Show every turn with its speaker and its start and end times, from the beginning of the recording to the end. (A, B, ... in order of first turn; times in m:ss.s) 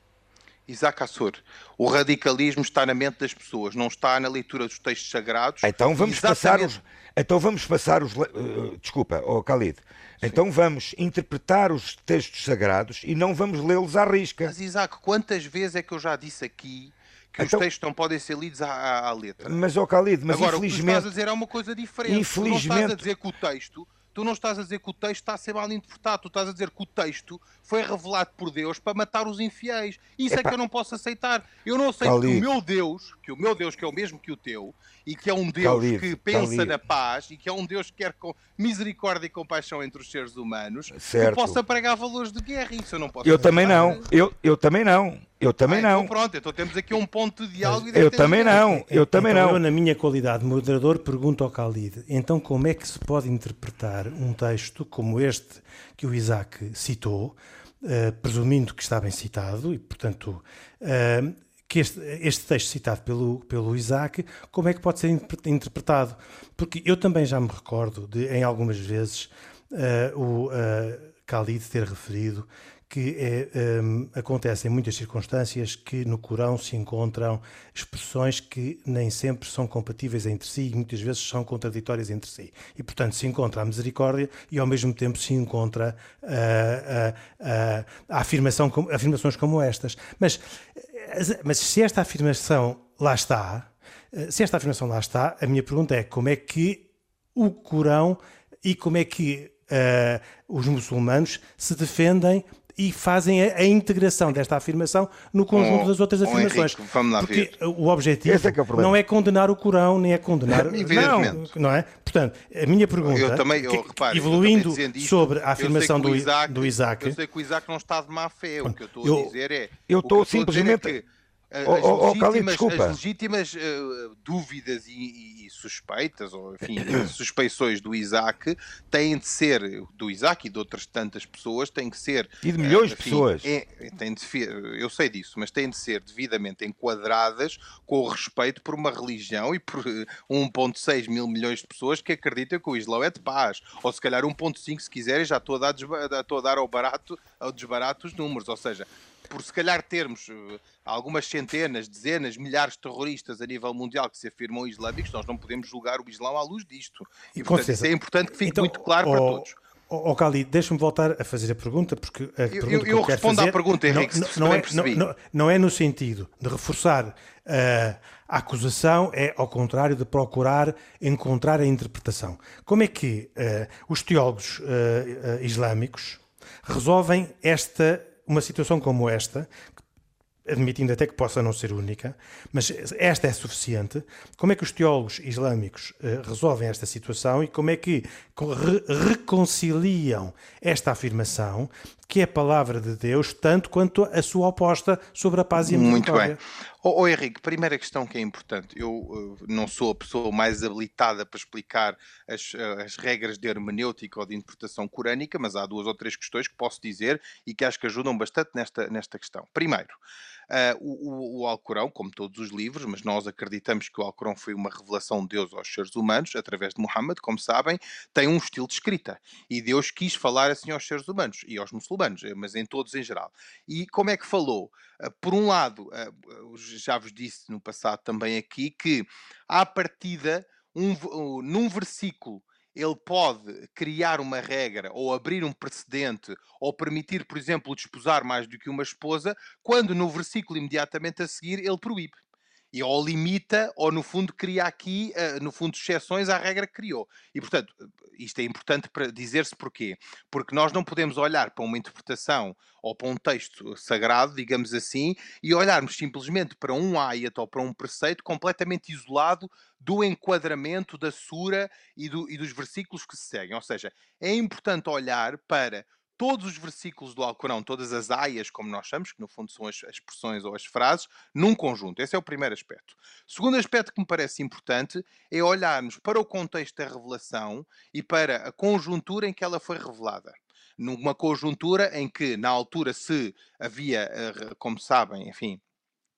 0:00.7-0:06.7 A
0:05.6-0:14.5 B
0:14.4-0:19.6 A
0:17.4-0:17.6 B
0:19.4-0:21.1 B
0:20.3-0:44.0 A
0:22.0-0:23.0 B
0:30.3-0:30.5 B
0:32.0-0:32.5 B
0:35.6-0:36.8 B
0:40.9-0:41.6 B
0:43.2-0:46.1 B
0:43.4-0:43.7 C
0:45.6-0:48.7 A
0:47.9-0:49.6 B
0:48.6-1:57.2 C
1:45.5-1:47.5 A
1:48.2-1:49.0 B
1:50.5-1:51.4 A
1:50.9-1:51.3 B
1:53.0-2:39.6 A
1:58.6-1:59.3 C
1:59.9-2:00.9 B
2:01.6-2:03.0 B
2:06.8-2:07.1 B
2:12.4-2:13.5 B
2:37.4-2:37.9 C
2:38.4-2:59.5 C
2:42.5-2:45.0 A
3:00.4-3:16.4 C
3:15.6-3:30.0 A
3:30.5-4:02.2 A
4:02.7-4:45.6 A